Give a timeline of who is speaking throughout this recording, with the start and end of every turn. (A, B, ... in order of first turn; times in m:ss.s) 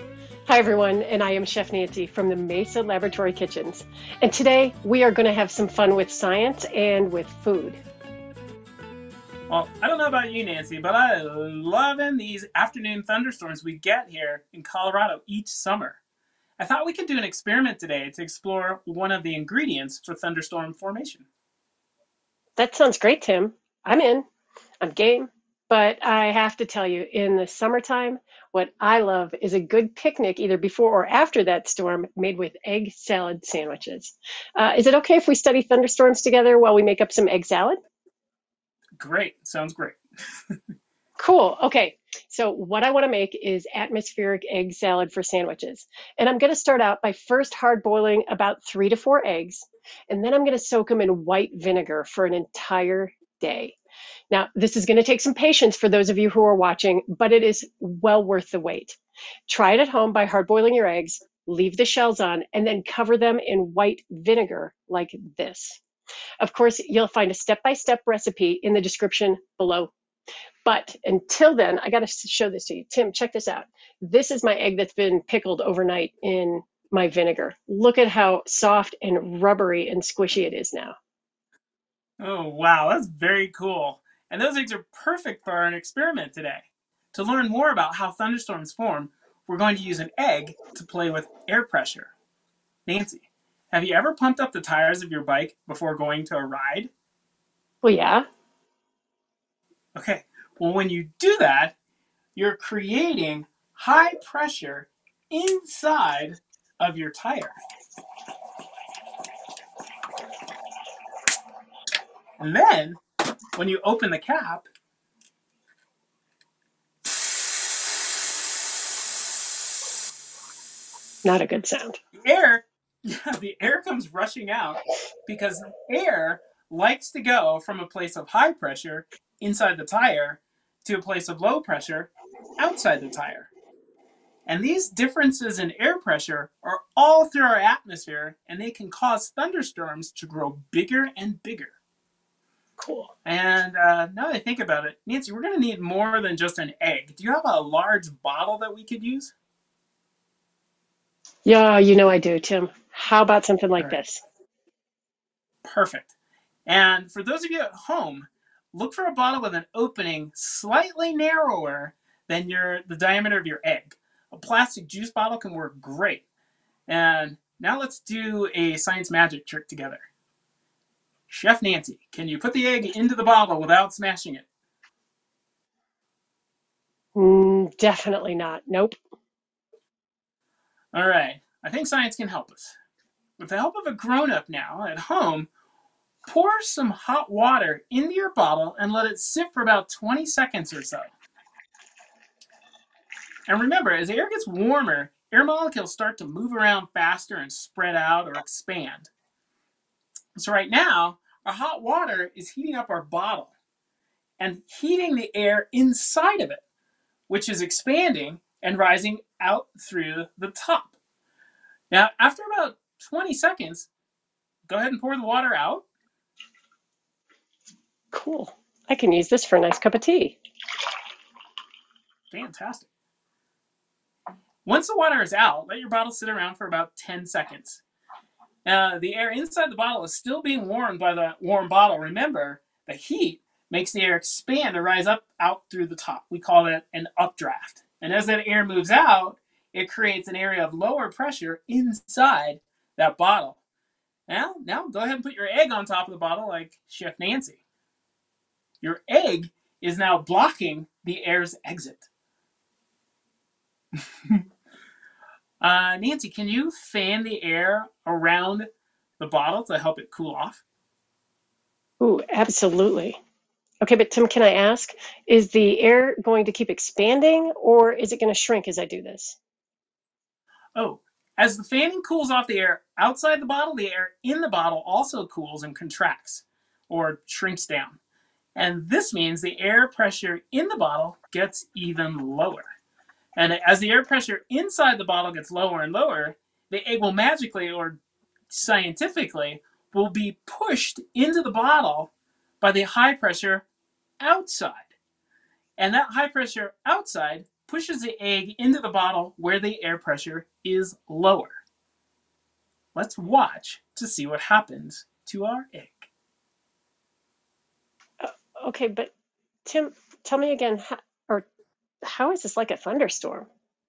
0:00.5-0:07.8 A
0:09.5-0:16.0 B
0:16.6-0:21.3 B
0:22.6-0:24.3 A
0:24.8-0:37.8 A
0:39.0-0:40.0 B
0:41.2-0:53.8 A
0:54.3-1:05.8 A
1:06.4-1:09.9 A
1:10.6-1:21.0 A
1:22.2-1:32.1 B
1:32.9-1:36.9 B
1:37.8-1:38.3 A
1:40.0-1:41.7 B
1:42.4-1:47.6 B
1:52.4-1:53.0 B
1:53.6-1:54.7 B
2:01.2-2:02.0 A
2:02.2-2:13.5 B
2:14.5-2:21.8 B
2:22.8-2:23.1 A
2:23.2-2:29.3 B
2:31.5-2:34.2 A
2:35.6-2:36.1 B
2:36.7-2:46.2 B
2:46.9-2:50.1 B
2:51.3-2:54.5 B
2:57.2-2:59.0 A
3:00.9-3:02.8 B
3:03.4-3:05.5 B
3:06.2-3:11.1 B
3:13.5-3:19.1 B
3:20.4-3:23.5 B
3:24.4-3:26.6 B
3:27.3-3:31.0 B
3:31.9-3:33.9 B
3:34.7-3:35.8 B
3:38.1-3:40.4 A
3:42.3-3:42.9 B
3:44.6-3:47.8 B
3:48.6-4:03.6 B
4:04.3-4:07.6 B
4:08.8-4:12.1 B
4:15.6-4:18.7 B
4:19.2-4:20.6 B
4:22.0-4:23.2 A
4:23.8-4:29.4 A
4:30.8-4:38.0 B
4:38.6-4:42.7 B
4:43.4-4:48.0 B
4:48.5-4:53.6 B
4:54.2-4:54.9 B
4:55.8-5:01.6 B
5:03.0-5:06.1 B
5:08.2-5:09.1 A
5:09.7-5:11.5 A
5:12.0-5:13.5 A